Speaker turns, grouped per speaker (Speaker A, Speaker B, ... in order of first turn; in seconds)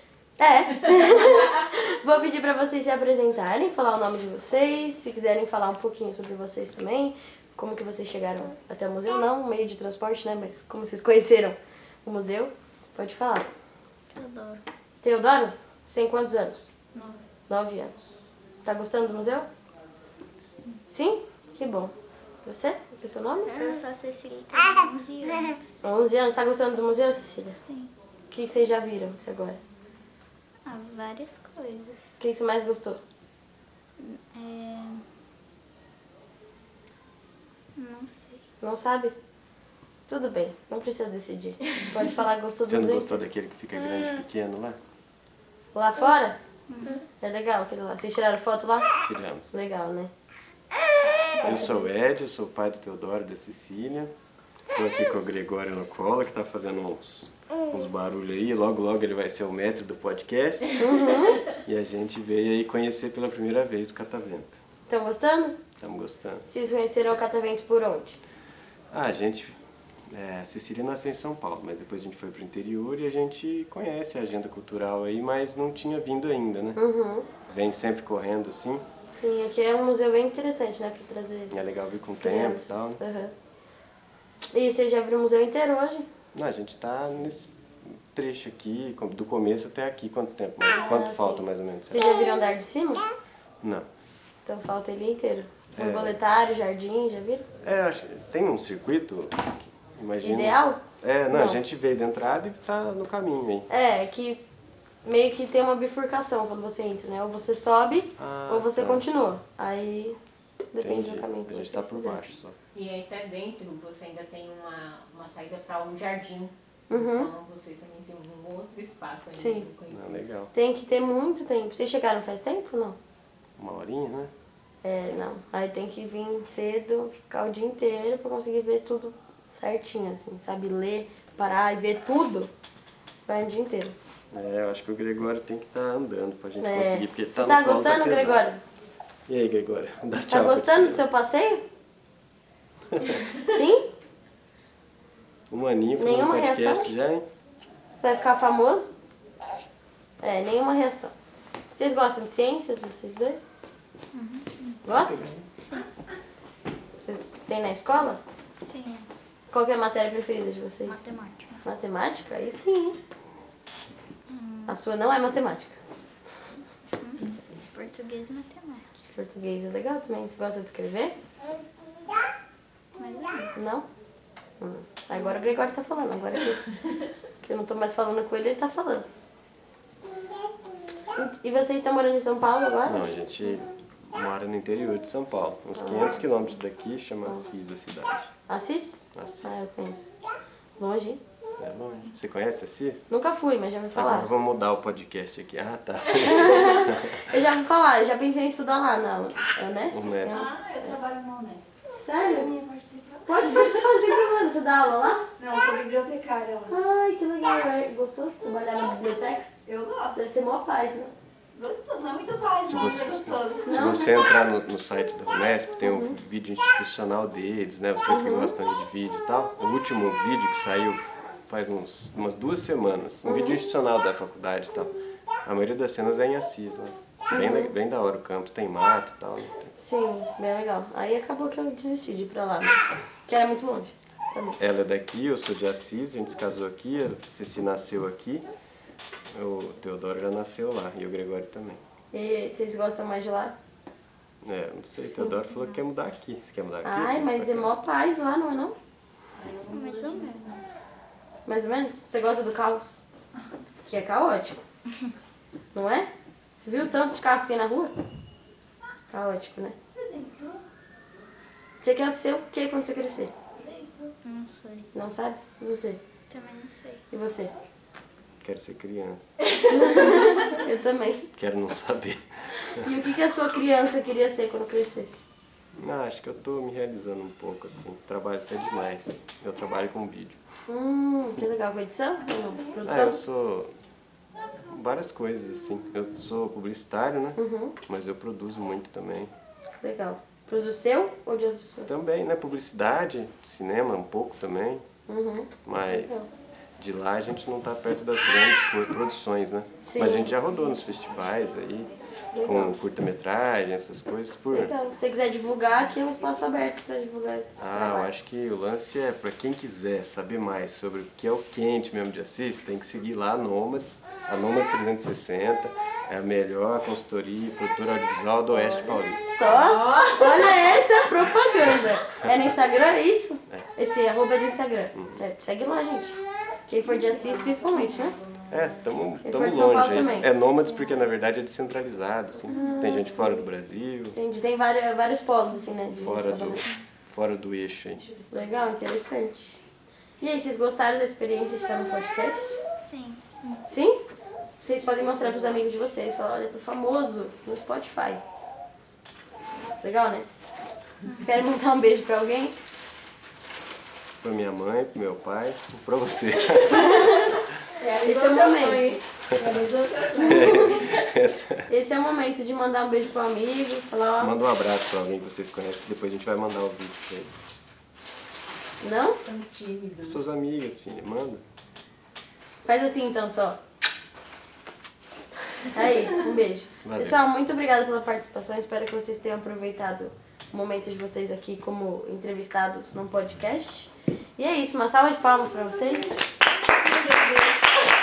Speaker A: 0.4-13.5, 15.0-16.7, 17.5-19.5, 20.9-21.9, 22.4-23.9, 25.8-27.6, 28.3-29.6, 32.2-33.0, 38.6-39.1, 40.1-43.2, 45.7-46.4, 47.2-48.9, 49.5-50.1, 51.4-51.9, 60.8-61.4, 64.9-65.6, 66.5-68.2, 76.8-77.3, 79.0-81.5, 82.1-83.3, 84.5-86.1, 90.7-93.0, 94.5-97.5, 100.2-101.6, 103.7-104.4, 105.0-110.2, 110.7-112.2, 116.9-117.3, 119.3-119.7, 120.5-123.0, 124.8-132.5, 133.3-133.9, 136.6-138.6, 140.3-141.6, 143.3-143.9, 146.0-146.9, 148.0-148.9, 150.2-151.1, 151.8-153.5, 154.8-155.3, 157.0-158.2, 159.5-161.0, 161.6-163.0, 164.7-165.8, 169.1-171.2, 173.6-173.9, 174.6-176.7, 177.4-179.1, 181.2-183.1, 185.8-186.5, 188.5-190.2, 190.8-191.2, 193.1-194.3, 196.1-201.0, 202.0-202.5, 203.3-205.2, 206.7-209.5, 210.1-211.1, 213.7-214.3, 215.8-216.2, 218.1-218.5, 223.2-223.6, 227.3-227.8, 229.8-234.6, 242.1-243.6, 245.0-245.3, 246.8-248.8, 251.5-253.0, 253.8-254.6, 255.7-256.1, 256.6-257.9, 259.1-259.8, 261.8-263.3, 264.9-266.0, 267.1-267.5, 269.7-271.3, 272.8-275.2, 280.7-283.2, 287.4-287.8, 289.8-291.9, 295.1-296.3, 299.8-300.4, 302.3-302.8, 304.5-308.5, 318.5-328.2, 329.2-330.3, 332.5-333.4, 334.1-336.6, 338.3-339.6, 340.2-342.6, 343.6-344.0, 344.6-348.2, 349.8-350.3, 351.1-352.6, 356.7-357.4, 358.0-359.0, 360.2-360.7, 361.7-364.4, 368.8-369.2, 372.6-373.6, 375.7-386.3
Speaker B: 14.1-14.6, 23.5-25.7, 27.6-27.9, 30.6-32.2, 34.0-35.0, 37.8-38.4, 46.7-47.0, 154.1-154.7, 155.6-155.9, 158.6-159.1, 160.8-161.6, 164.3-164.8, 167.0-168.9, 173.0-173.5, 249.7-250.6, 264.2-264.9, 266.3-267.0, 342.8-343.6
Speaker C: 42.6-44.8, 49.0-49.5, 51.4-54.1, 54.7-60.8, 61.4-64.6, 65.8-66.5, 68.9-69.6, 70.1-76.8, 77.5-78.8, 81.5-83.0, 86.3-92.2, 93.6-93.9, 95.8-96.2, 97.6-103.7, 108.2-109.1, 110.8-112.6, 119.9-120.5, 123.6-124.3, 134.3-138.5, 139.3-141.1, 145.5-147.2, 154.9-155.4, 182.9-188.3, 189.2-189.6, 191.6-193.1, 193.9-197.3, 199.9-200.5, 212.7-229.7, 234.6-238.5, 239.3-241.8, 244.4-247.7, 268.4-269.3, 271.4-273.0, 275.7-280.4, 282.8-283.7, 284.6-289.3, 291.9-294.8, 295.7-304.8, 307.6-319.4, 324.9-325.2, 328.5-334.2, 335.9-338.1, 354.2-357.5, 360.2-361.7, 364.2-367.5, 370.0-371.4, 376.8-377.2
Speaker D: 112.7-120.2, 249.7-250.2, 357.8-361.0, 369.2-370.2, 386.9-387.5
Speaker E: 200.3-201.7, 202.3-203.5, 205.4-206.7, 209.7-210.2, 211.6-213.8, 249.4-250.6, 260.0-260.6, 263.6-264.1, 327.5-327.8